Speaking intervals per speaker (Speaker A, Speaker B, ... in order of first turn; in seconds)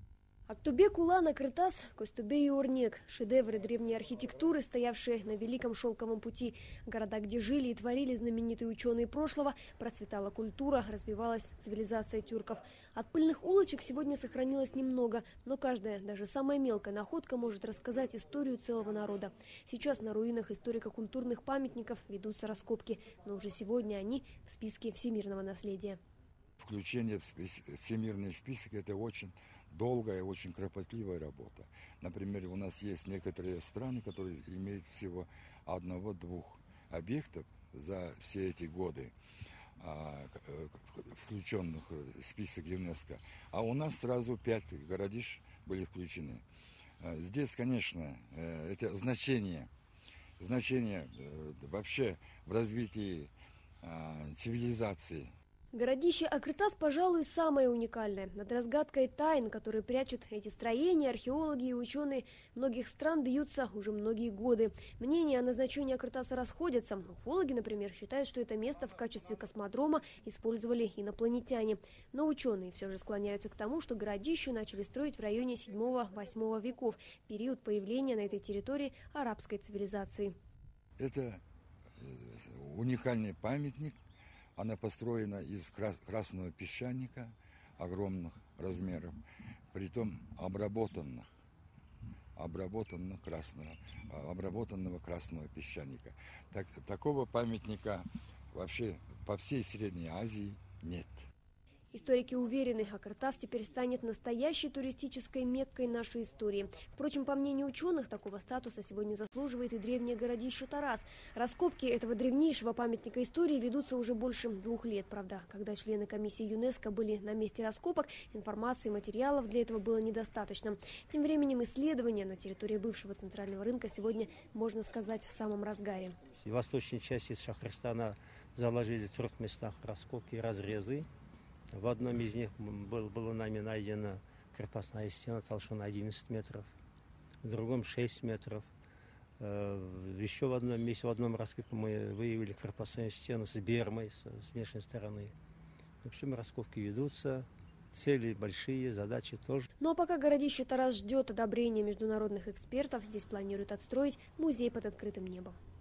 Speaker A: 0.5-26.0, 55.7-80.3, 101.9-126.2, 149.8-155.6
Speaker B: 26.6-39.1, 39.8-46.4, 47.0-49.7, 50.4-53.3, 53.8-55.3, 81.0-81.4, 82.0-83.9, 84.5-89.1, 89.7-91.3, 92.3-101.3
Speaker C: 126.4-131.1, 131.7-136.7, 137.4-138.7, 139.4-145.3, 146.0-149.7